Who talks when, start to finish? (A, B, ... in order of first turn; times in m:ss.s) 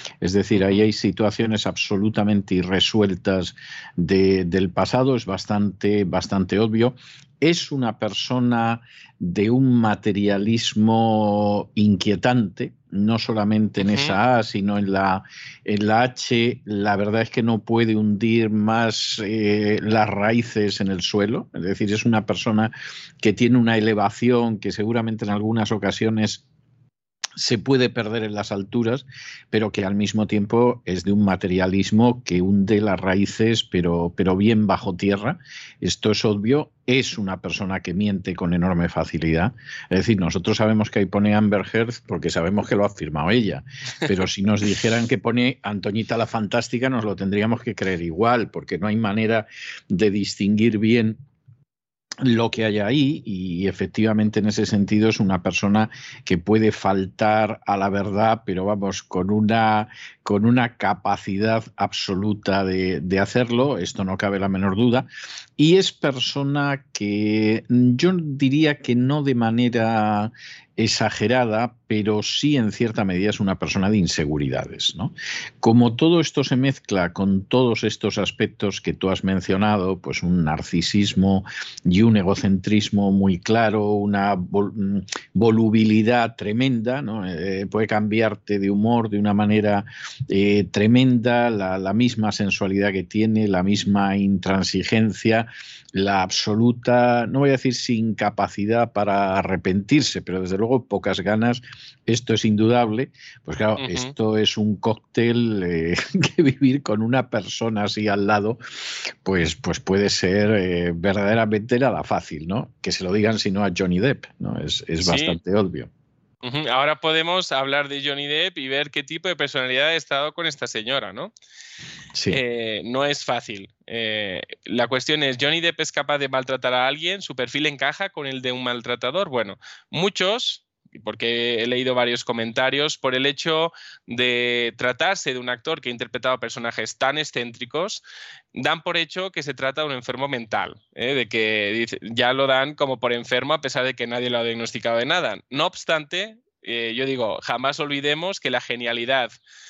0:00.2-0:26.4 A
0:13.8-0:14.2 B
0:27.4-0:51.2 A
0:52.2-1:55.9 A
1:43.8-1:44.1 B
1:55.0-1:55.4 B
1:56.4-2:01.3 B
2:02.2-2:02.4 A
2:02.3-2:18.0 B
2:18.6-2:29.3 B